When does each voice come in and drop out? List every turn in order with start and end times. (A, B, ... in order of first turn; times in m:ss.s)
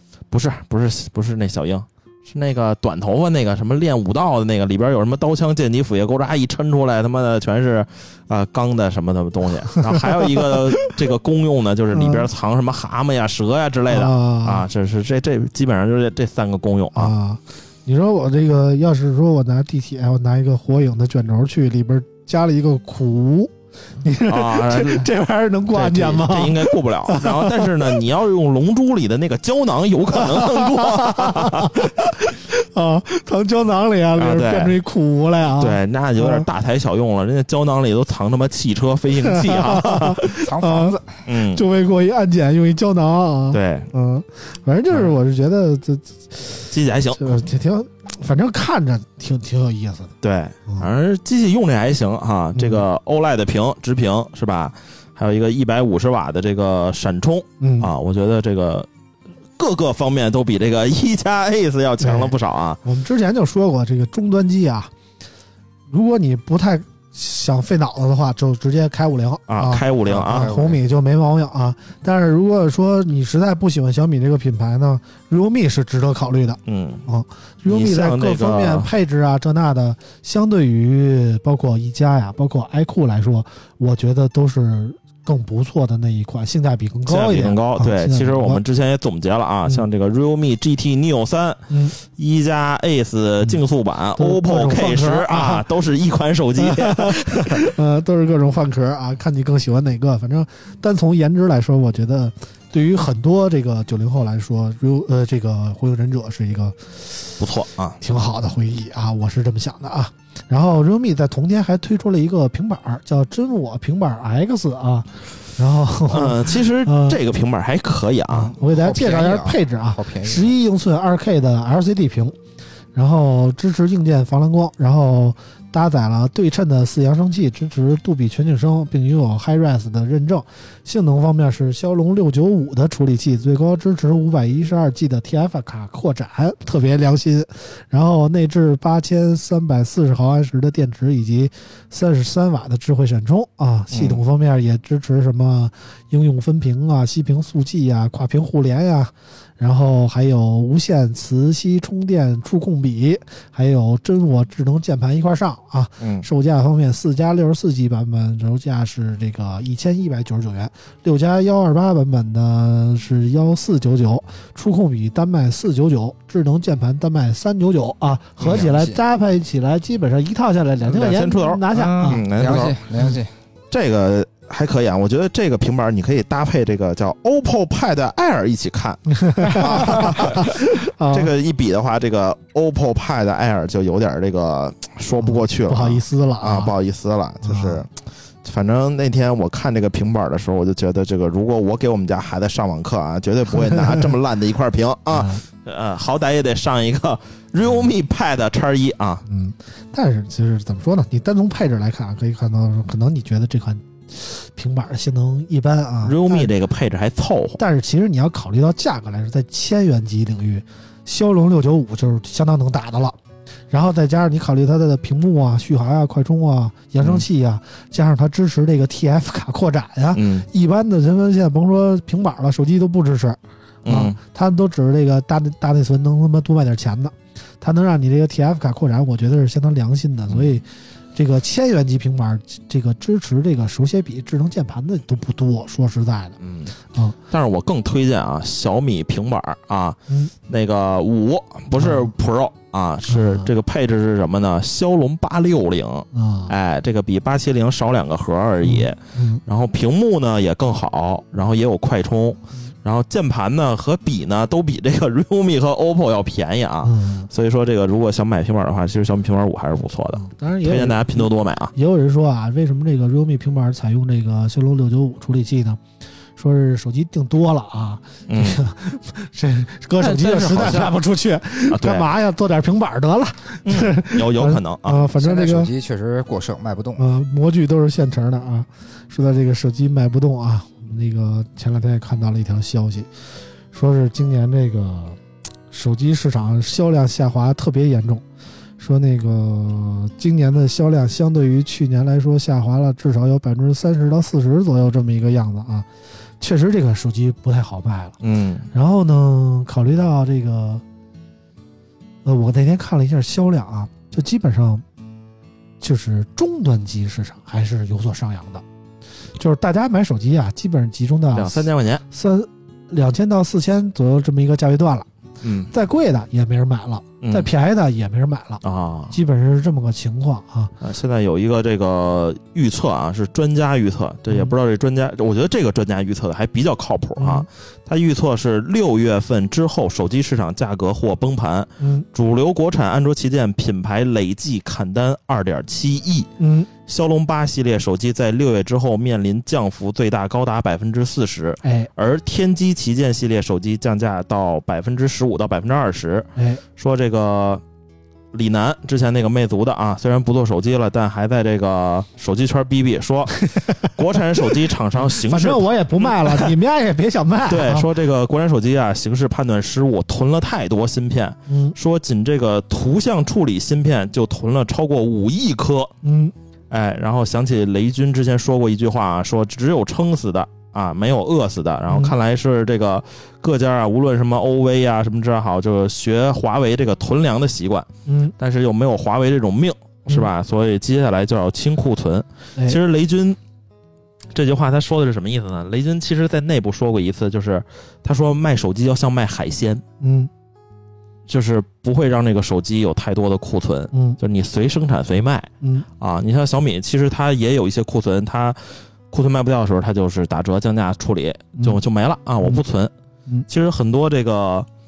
0:00.3-0:17.1 A
0:09.9-0:10.5 B
0:11.9-0:12.2 B
0:13.9-0:14.7 B
0:16.9-0:28.0 B
0:24.3-0:25.1 A
0:25.7-0:32.2 A
0:30.2-0:36.5 B
0:34.2-0:34.8 A
0:35.6-0:40.3 A
0:39.2-0:41.0 B
0:40.4-0:41.2 C
0:41.3-0:41.6 A
0:41.5-0:50.1 B
0:43.5-0:43.9 A
0:46.7-0:47.4 A
0:50.2-0:58.9 A
0:52.5-0:52.8 B
0:57.6-0:57.9 B
0:59.6-1:02.8 A
1:02.0-1:04.9 B
1:05.9-1:28.6 B
1:09.5-1:10.6 A
1:10.2-1:10.8 C
1:16.6-1:17.0 A
1:17.6-1:18.9 A
1:27.1-1:37.6 A
1:31.7-1:31.9 B
1:34.2-1:35.6 B
1:36.6-1:47.4 B
1:47.4-1:48.0 A
1:48.0-1:57.2 B
1:56.1-1:58.6 A
1:58.3-2:02.3 B
1:58.6-2:00.6 C
2:02.9-2:52.2 B
2:23.9-2:24.2 A
2:36.0-2:36.3 A
2:48.4-2:49.0 C
2:50.8-2:52.8 A
2:51.7-2:53.3 C
2:53.7-3:07.9 A
2:59.1-3:01.3 B
3:05.2-3:06.7 B
3:07.4-3:07.8 B
3:08.4-3:19.2 A
3:13.6-3:14.1 B
3:15.1-3:15.4 B
3:19.2-3:26.5 B
3:26.0-3:27.6 A
3:27.6-3:33.2 B
3:33.7-3:56.4 B
3:40.1-3:40.5 A
3:43.8-3:44.2 A
3:50.3-3:50.6 A
3:56.4-3:56.7 A
3:57.3-4:21.7 A
4:01.7-4:02.1 B
4:03.1-4:03.5 B
4:06.1-4:06.5 B
4:08.6-4:09.4 B
4:16.8-4:17.3 B
4:20.1-4:25.8 B
4:26.4-4:35.7 B
4:28.3-4:28.6 A
4:30.0-4:31.0 A
4:31.7-4:32.0 A
4:33.6-4:35.1 A
4:35.2-4:37.0 C
4:37.0-4:43.1 B
4:43.7-4:45.2 B
4:45.7-4:48.2 B
4:48.8-4:55.9 B
4:56.4-4:58.2 B
4:58.2-4:58.7 A
4:58.7-5:00.8 B
5:02.2-5:04.8 B
5:05.8-5:08.6 B
5:09.4-5:15.1 B
5:11.3-5:12.0 A
5:15.4-5:15.7 A
5:15.7-5:20.7 B
5:17.2-5:17.5 A
5:18.6-5:19.1 A
5:20.8-5:36.3 A
5:27.2-5:27.5 B
5:31.8-5:32.0 B
5:36.4-5:36.7 B
5:36.8-5:47.6 A
5:41.6-5:41.9 B
5:46.4-5:46.6 B
5:48.3-5:56.5 A
5:53.4-5:53.9 B
5:55.0-5:57.9 B
5:57.5-6:05.9 A
6:01.5-6:01.8 B
6:06.0-6:06.3 B
6:06.7-6:23.4 A
6:11.9-6:12.1 B
6:18.0-6:18.3 B
6:24.3-6:29.8 A
6:30.0-6:30.3 B
6:31.3-6:42.9 A
6:33.9-6:34.2 B
6:43.5-6:44.7 A